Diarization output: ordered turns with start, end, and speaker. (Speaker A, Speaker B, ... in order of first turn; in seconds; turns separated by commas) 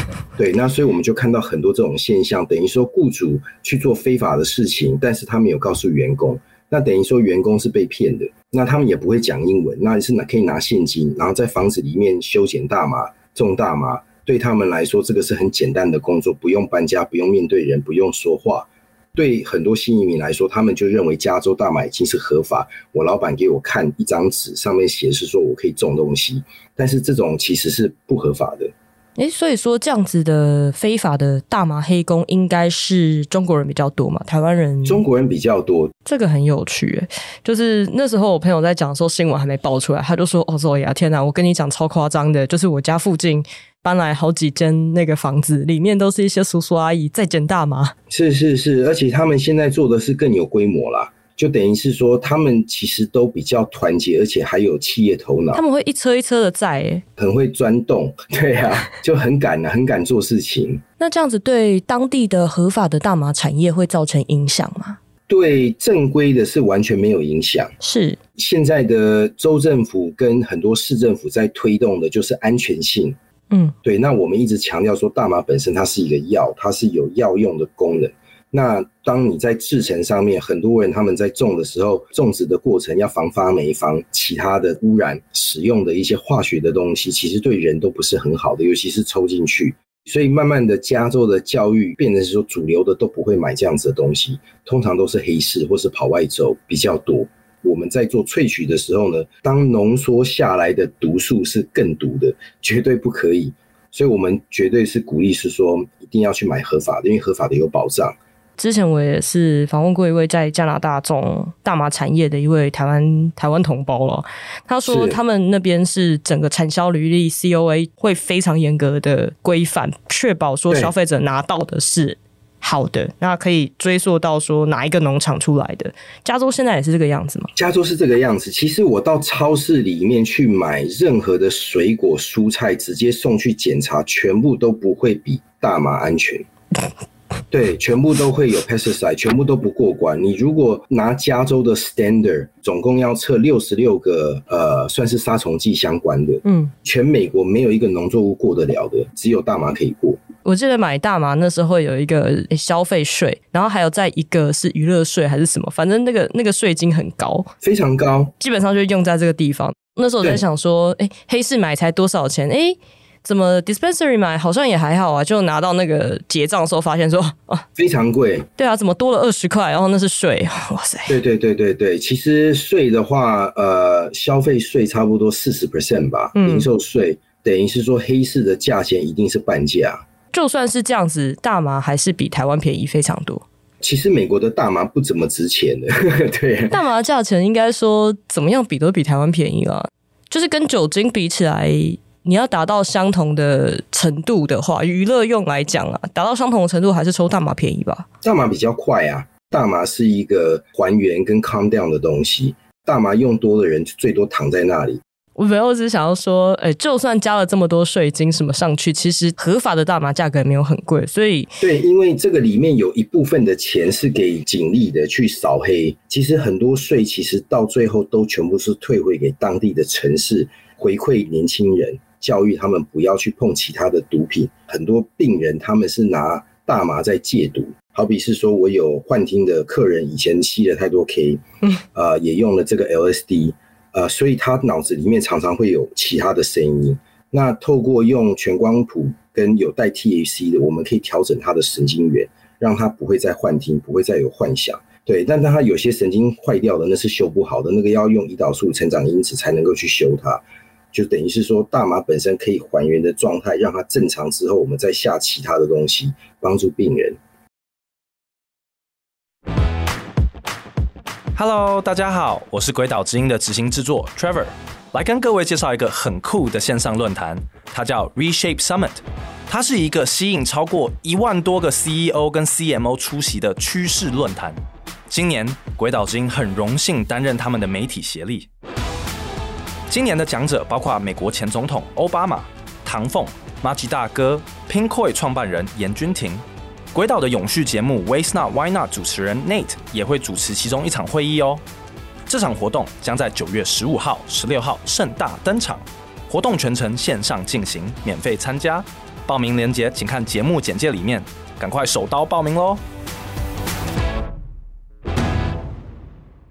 Speaker A: 0.4-28.7, Speaker B: 29.2-35.0, Speaker A: 34.9-35.9, Speaker B: 36.0-47.9, Speaker A: 48.1-55.6, Speaker B: 55.5-57.0, Speaker A: 57.2-60.8, Speaker B: 61.0-65.0, Speaker A: 65.3-67.8, Speaker B: 67.8-68.2, Speaker A: 68.4-73.2, Speaker A: 73.8-108.2, Speaker B: 108.6-127.5, Speaker A: 114.8-115.2, Speaker A: 127.5-136.5, Speaker A: 137.5-150.2, Speaker B: 146.4-146.7, Speaker B: 150.4-157.5, Speaker A: 157.6-158.3, Speaker B: 158.4-167.7, Speaker A: 167.8-168.5, Speaker B: 168.6-171.2, Speaker A: 171.1-180.0, Speaker B: 176.3-176.7, Speaker B: 180.3-183.4, Speaker A: 183.8-186.8, Speaker B: 186.7-198.1, Speaker A: 198.2-205.0, Speaker B: 205.4-211.6, Speaker A: 211.6-231.4, Speaker A: 231.9-257.2, Speaker C: 261.4-274.6, Speaker C: 275.1-278.5, Speaker C: 279.9-286.4, Speaker C: 286.9-291.6, Speaker C: 292.3-302.8